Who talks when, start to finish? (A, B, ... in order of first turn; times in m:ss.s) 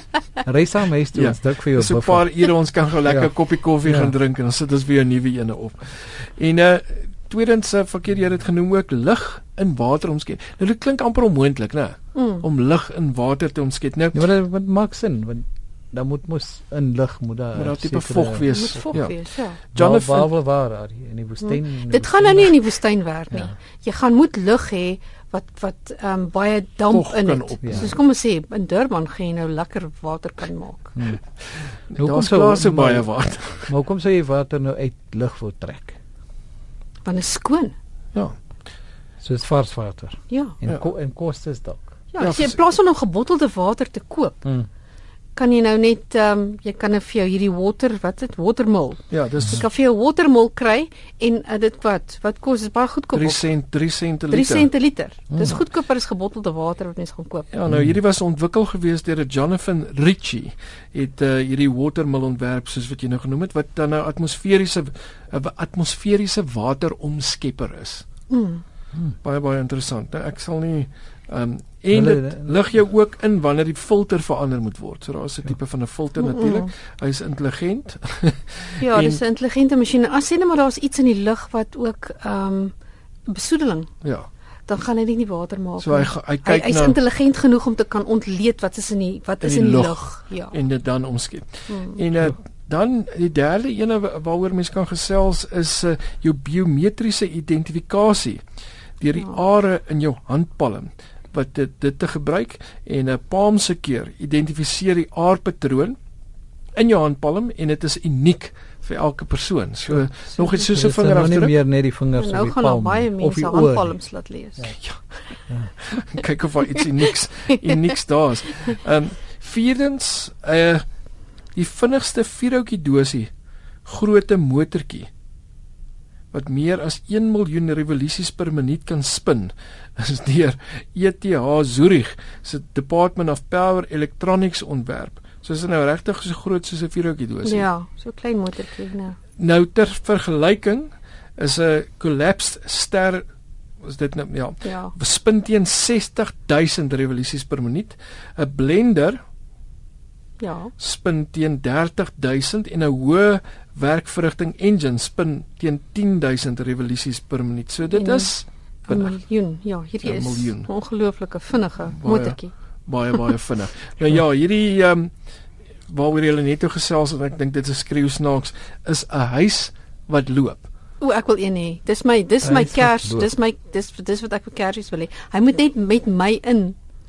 0:00.4-0:02.3 A
0:01.1-0:14.2 B
0:03.8-0:04.1 A
0:12.1-0:12.4 C
0:14.1-0:18.9 A
0:17.5-0:19.2 B
0:18.5-0:19.6 C
0:19.7-0:20.3 B
0:19.7-0:22.6 A
0:21.4-0:30.9 C
0:26.9-0:28.0 B
0:27.6-0:27.9 A
0:31.9-0:33.7 B
0:32.0-0:33.1 A
0:33.7-0:36.0 A
0:37.0-0:37.7 C
0:39.2-0:41.9 A
0:40.3-0:40.6 C
0:42.1-0:44.4 C
0:42.2-0:42.5 B
0:45.4-0:53.5 C
0:49.1-0:49.6 B
0:53.1-0:54.7 B
0:54.3-0:57.5 C
0:55.3-0:55.6 B
0:57.5-1:08.0 B
0:57.7-0:58.0 A
1:08.3-1:08.6 C
1:09.2-1:19.2 B
1:11.9-1:12.6 A
1:16.2-1:16.7 C
1:18.8-1:22.7 C
1:23.3-1:23.9 C
1:24.0-1:24.3 B
1:24.7-1:30.5 C
1:25.8-1:27.0 B
1:29.4-1:38.4 B
1:31.7-1:32.0 C
1:39.0-1:46.0 B
1:46.7-1:51.5 B
1:50.7-1:54.0 A
1:52.2-1:54.7 C
1:54.6-1:55.0 B
1:55.8-2:00.8 B
2:01.5-2:03.3 B
2:03.8-2:05.1 B
2:06.3-2:17.7 B
2:17.4-2:19.2 C
2:19.4-2:23.2 B
2:23.8-2:29.2 B
2:24.6-2:24.9 C
2:30.4-2:30.7 C
2:30.8-2:39.1 B
2:37.9-2:38.3 C
2:38.9-2:42.5 C
2:40.0-2:40.7 B
2:42.0-2:45.1 B
2:45.9-2:50.7 B
2:51.0-2:56.8 C
2:52.4-2:53.3 A